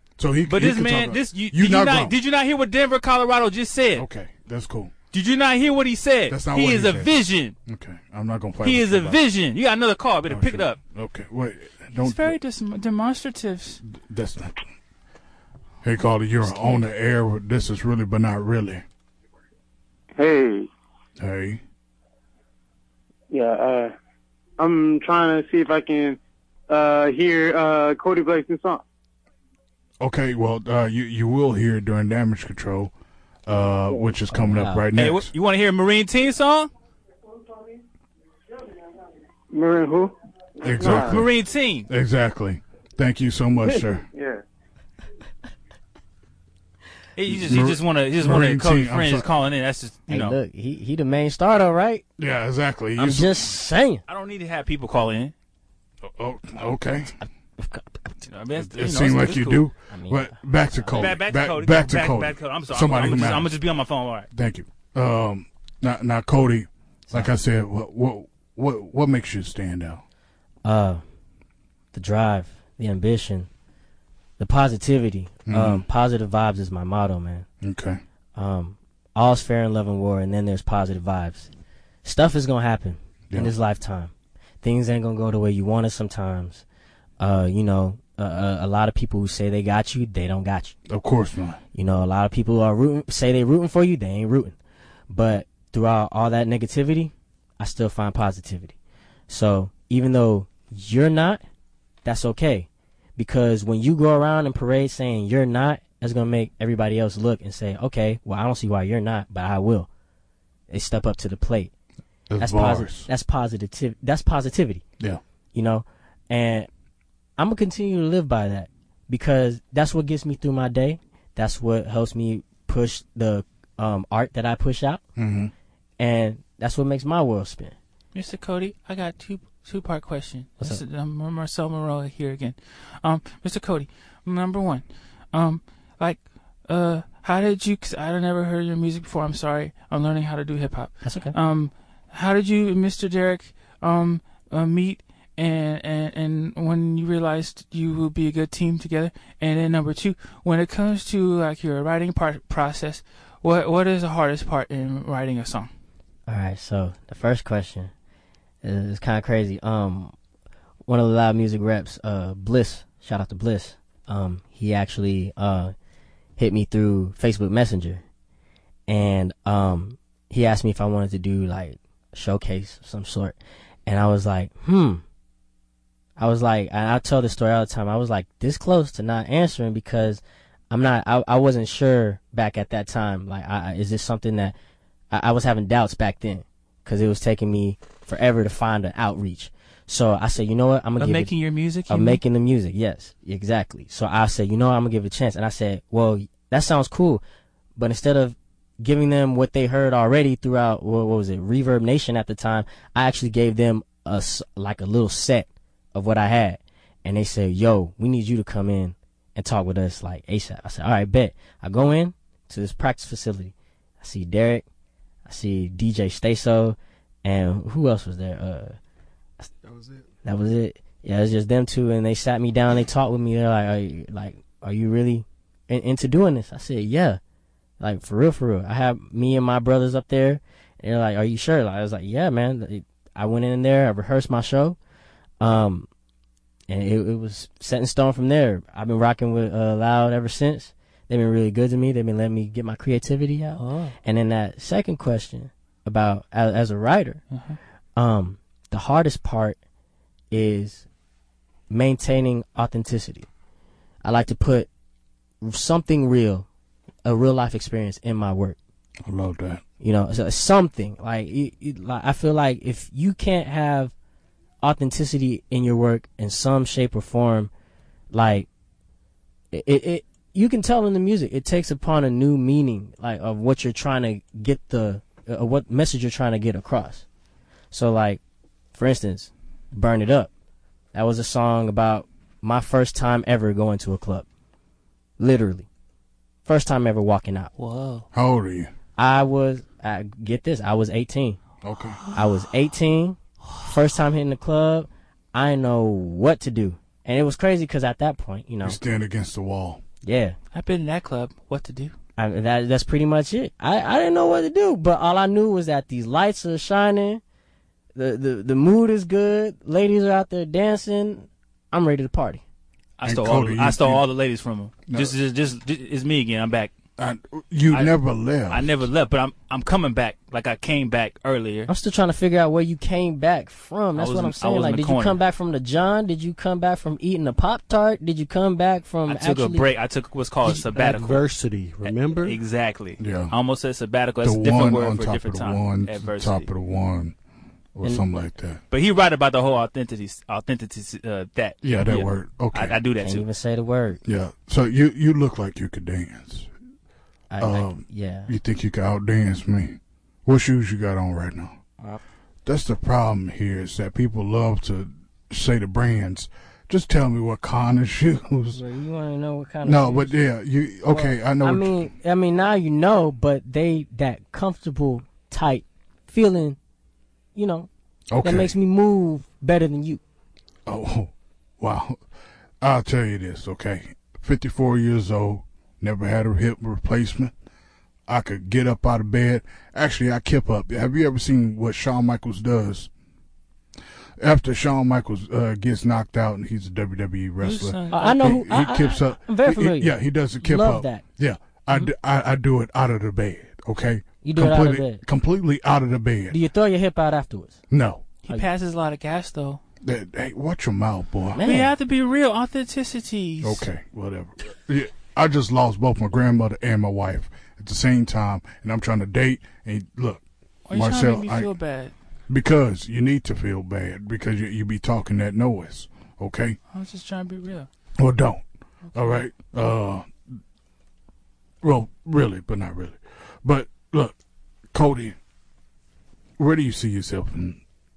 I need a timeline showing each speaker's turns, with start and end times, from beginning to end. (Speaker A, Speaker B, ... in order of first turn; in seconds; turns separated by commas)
Speaker A: 0.2-2.1, Speaker B: 0.5-4.1, Speaker A: 4.0-4.9, Speaker B: 5.1-7.5, Speaker A: 6.3-7.1, Speaker A: 7.7-9.2, Speaker B: 8.6-10.8, Speaker A: 10.3-12.4, Speaker B: 12.0-13.8, Speaker A: 13.9-14.6, Speaker A: 15.8-18.8, Speaker C: 20.2-20.7, Speaker A: 21.2-21.6, Speaker C: 23.3-23.9, Speaker C: 24.6-28.8, Speaker A: 30.0-32.9, Speaker A: 33.5-35.3, Speaker D: 34.3-34.9, Speaker B: 35.0-36.7, Speaker C: 39.5-41.2, Speaker A: 40.6-41.3, Speaker B: 40.8-41.9, Speaker A: 41.9-44.1, Speaker C: 43.6-44.4, Speaker B: 47.2-50.4, Speaker A: 47.3-49.3, Speaker D: 50.1-52.0, Speaker A: 52.2-53.6, Speaker D: 53.0-54.0, Speaker B: 54.1-55.3, Speaker A: 56.0-57.2, Speaker D: 57.2-58.1, Speaker B: 58.2-59.7, Speaker A: 58.6-63.5, Speaker D: 59.9-61.1, Speaker B: 61.0-64.3, Speaker A: 64.3-70.0, Speaker D: 70.7-71.0, Speaker D: 71.9-73.5, Speaker D: 74.4-77.5, Speaker A: 75.5-75.9, Speaker A: 77.6-78.0, Speaker D: 78.4-81.5, Speaker D: 82.0-86.7, Speaker D: 87.2-90.8, Speaker A: 90.9-91.6, Speaker D: 91.7-94.6, Speaker D: 95.1-98.8, Speaker D: 99.3-101.4, Speaker D: 102.0-109.9, Speaker D: 110.7-111.7, Speaker A: 112.3-113.1, Speaker D: 112.4-114.8, Speaker D: 115.5-116.7, Speaker D: 117.4-125.0, Speaker A: 125.2-125.5, Speaker D: 126.0-127.8, Speaker B: 128.2-155.7, Speaker D: 141.0-141.3, Speaker D: 156.3-157.9, Speaker D: 158.6-160.1, Speaker D: 160.9-165.7, Speaker D: 166.4-168.0, Speaker D: 168.9-175.0, Speaker D: 176.2-184.6, Speaker D: 185.1-191.3, Speaker B: 191.0-192.2, Speaker D: 191.9-197.2, Speaker D: 197.8-214.7, Speaker D: 215.3-218.8, Speaker E: 219.7-220.0, Speaker D: 220.2-227.2, Speaker D: 227.8-234.8, Speaker D: 235.4-235.9, Speaker D: 236.7-247.2, Speaker B: 243.6-243.9, Speaker B: 247.3-247.6, Speaker D: 248.0-249.6, Speaker D: 250.3-250.9, Speaker D: 251.7-253.3, Speaker D: 254.0-254.7, Speaker D: 255.4-256.5, Speaker D: 257.1-258.6, Speaker A: 259.1-259.6, Speaker D: 259.8-263.9, Speaker D: 264.6-267.5, Speaker D: 268.1-268.5, Speaker D: 269.5-277.1, Speaker D: 277.7-278.2, Speaker D: 278.7-280.3, Speaker D: 280.9-284.3, Speaker D: 285.2-285.7, Speaker D: 286.4-287.5, Speaker B: 287.6-288.1, Speaker A: 288.1-288.7, Speaker D: 289.0-291.4, Speaker A: 291.6-292.0, Speaker D: 292.1-298.8, Speaker A: 298.6-299.8, Speaker D: 300.0-300.4, Speaker B: 300.5-301.9, Speaker D: 302.2-307.2, Speaker D: 307.9-312.4, Speaker B: 313.0-316.7, Speaker A: 313.1-314.0, Speaker A: 314.9-315.1, Speaker A: 317.0-318.8, Speaker B: 318.5-321.7, Speaker D: 321.7-329.7, Speaker B: 324.0-325.2, Speaker B: 329.1-331.2, Speaker E: 330.4-332.4, Speaker B: 331.8-336.5, Speaker A: 333.0-333.3, Speaker A: 334.2-337.1, Speaker A: 337.8-338.6, Speaker B: 338.7-343.2, Speaker A: 341.6-342.8, Speaker D: 343.0-344.0, Speaker A: 344.1-346.5, Speaker D: 347.3-348.3, Speaker A: 347.4-351.6, Speaker A: 352.4-358.6, Speaker D: 358.5-360.2, Speaker A: 359.6-361.9, Speaker D: 360.9-366.6, Speaker D: 367.4-367.7, Speaker A: 368.1-368.5, Speaker D: 368.2-370.0, Speaker A: 370.7-372.0, Speaker A: 372.6-377.3, Speaker A: 378.1-382.9, Speaker A: 384.2-396.4, Speaker B: 387.4-388.3, Speaker D: 387.9-391.0, Speaker D: 394.2-395.0, Speaker D: 396.3-397.6, Speaker A: 397.7-398.1, Speaker B: 398.2-399.6, Speaker A: 399.8-401.4, Speaker D: 401.4-401.7, Speaker B: 401.4-403.7, Speaker A: 403.4-411.5, Speaker B: 410.7-411.9, Speaker A: 412.3-416.6, Speaker B: 416.7-417.7, Speaker A: 418.0-420.1, Speaker A: 421.6-424.2, Speaker A: 424.7-425.2, Speaker A: 426.4-427.6